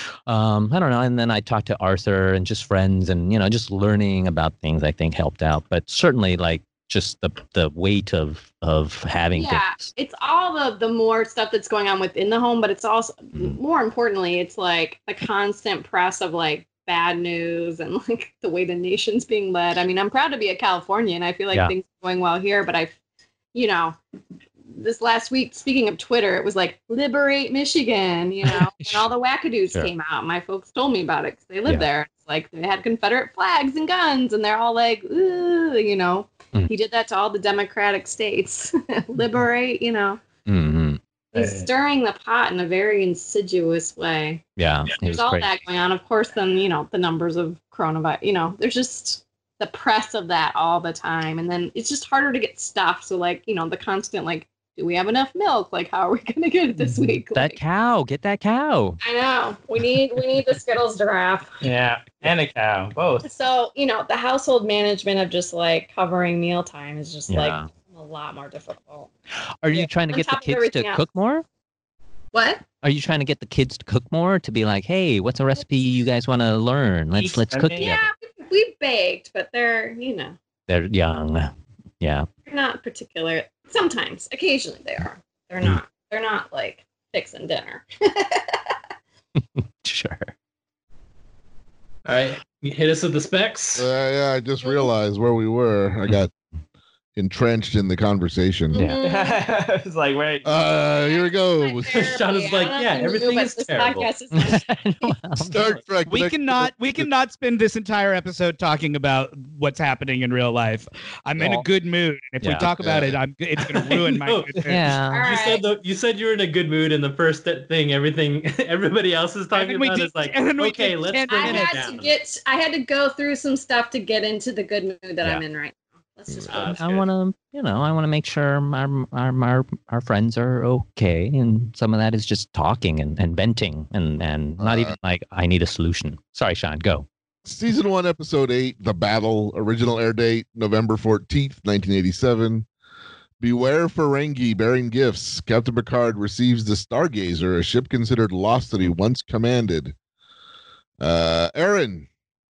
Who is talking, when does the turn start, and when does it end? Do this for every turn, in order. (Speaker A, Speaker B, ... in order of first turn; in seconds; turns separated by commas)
Speaker A: 0.3-9.7, Speaker B: 9.3-23.0, Speaker B: 23.5-24.0, Speaker B: 24.7-40.2, Speaker A: 28.6-29.1, Speaker A: 40.5-41.0, Speaker C: 41.3-41.7, Speaker B: 41.3-44.4, Speaker A: 44.6-45.6, Speaker B: 45.0-57.6, Speaker A: 57.3-59.0, Speaker B: 59.0-61.6, Speaker C: 61.6-63.3, Speaker B: 63.2-69.1, Speaker A: 67.3-67.7, Speaker A: 69.6-71.5, Speaker B: 69.7-71.1, Speaker B: 72.3-72.7, Speaker A: 72.8-78.1, Speaker C: 77.2-77.9, Speaker B: 77.8-80.4, Speaker A: 80.7-82.3, Speaker B: 82.5-88.8, Speaker A: 89.8-90.3, Speaker D: 92.1-93.9, Speaker E: 93.8-96.3, Speaker B: 94.6-94.9, Speaker E: 97.2-98.8, Speaker A: 98.7-99.0, Speaker B: 98.7-99.4, Speaker C: 99.0-100.5, Speaker E: 100.4-102.1, Speaker B: 100.8-105.1, Speaker D: 101.9-104.1, Speaker A: 104.3-105.8, Speaker E: 105.4-107.1, Speaker F: 106.1-115.0, Speaker A: 111.4-111.7, Speaker A: 112.4-112.7, Speaker E: 112.8-113.2, Speaker D: 113.6-122.1, Speaker A: 114.7-115.3, Speaker B: 115.1-115.7, Speaker F: 119.5-121.8, Speaker B: 121.3-126.8, Speaker D: 126.5-127.1, Speaker A: 126.7-137.1, Speaker E: 134.6-134.9, Speaker E: 137.4-142.7, Speaker E: 143.4-149.9, Speaker E: 151.0-152.1